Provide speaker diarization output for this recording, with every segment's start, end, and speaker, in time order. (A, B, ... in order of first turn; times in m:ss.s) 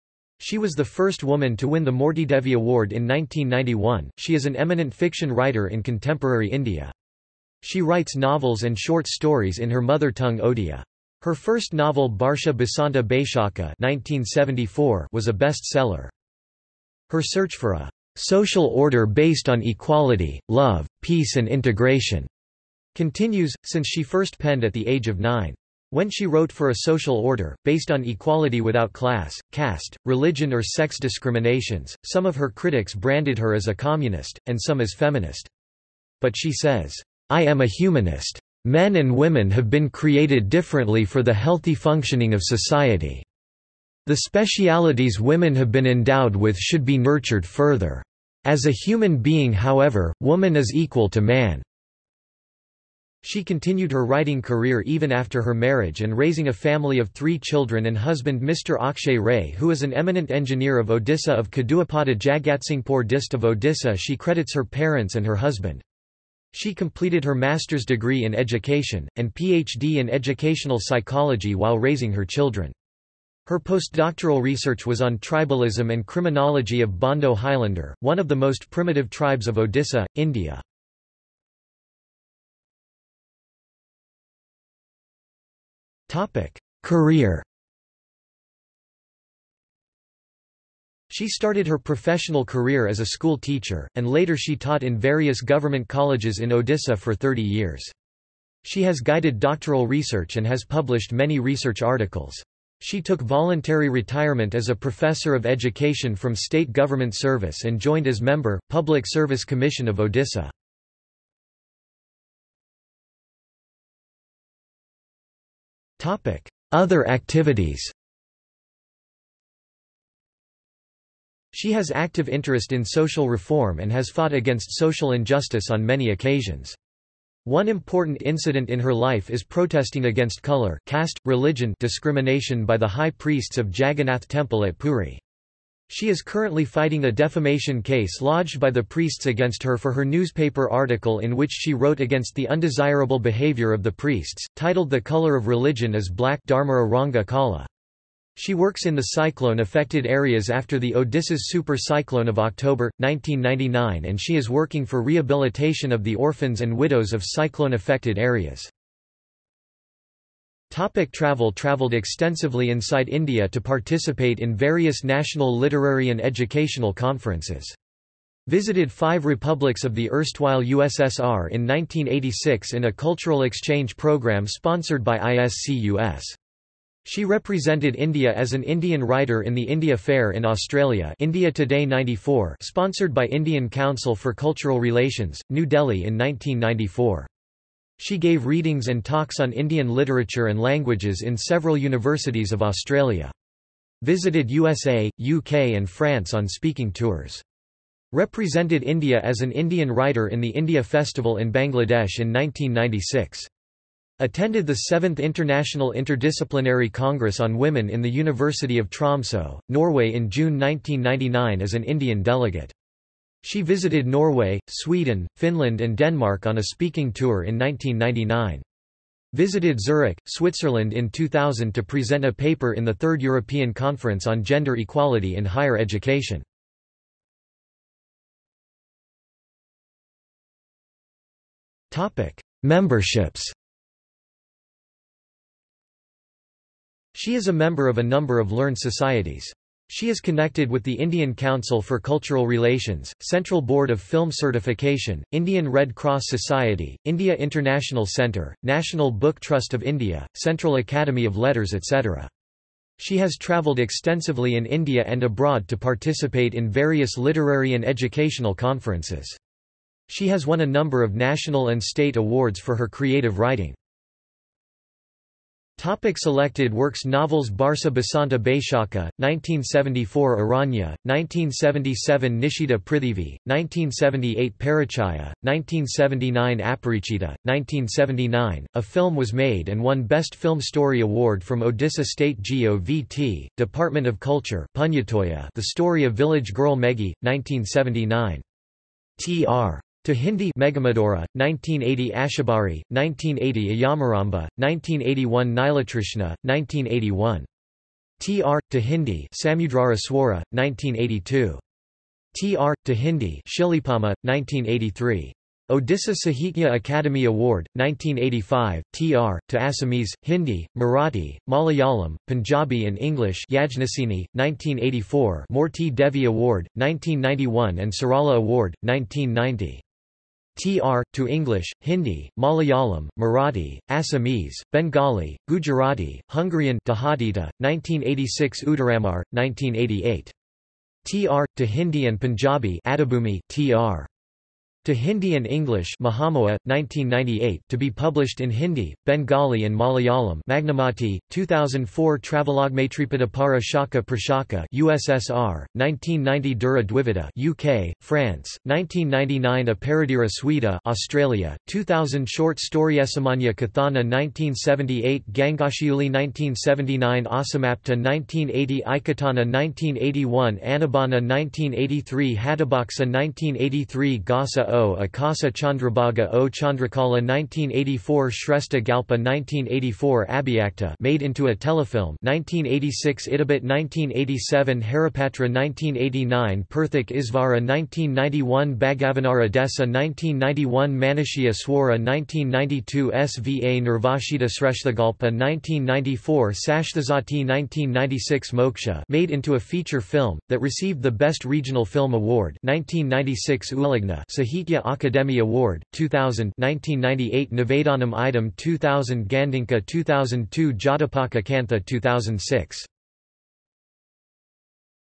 0:00.4-0:06.9 A
0:07.6-0:16.1 A
0:17.1-0:22.3 A
0:22.9-0:35.5 A
0:36.2-0:43.2 A
0:44.0-0:51.6 A
0:53.2-1:05.8 A
1:06.5-1:12.7 A
1:13.4-1:20.6 A
1:26.1-1:27.4 A
1:31.1-1:37.9 A
1:38.6-1:50.5 A
1:56.0-1:57.9 A
2:01.5-2:06.8 A
2:07.4-2:15.2 A
2:15.9-2:27.7 A
2:28.4-2:38.7 A
2:40.7-2:47.8 A
2:48.5-2:56.4 A
2:57.0-3:07.3 A
3:08.0-3:13.3 A
3:14.0-3:17.4 A
3:18.1-3:23.5 A
3:24.2-3:32.7 A
3:33.4-3:38.6 A
3:39.3-3:46.4 A
3:51.9-3:53.5 A
3:57.1-4:12.3 A
4:13.0-4:19.4 A
4:20.1-4:23.8 A
4:25.8-4:48.4 A
4:49.2-4:57.5 A
4:58.2-5:01.6 A
5:02.3-5:19.8 A
5:20.5-5:30.3 A
5:31.0-5:34.1 A
5:34.8-6:42.9 A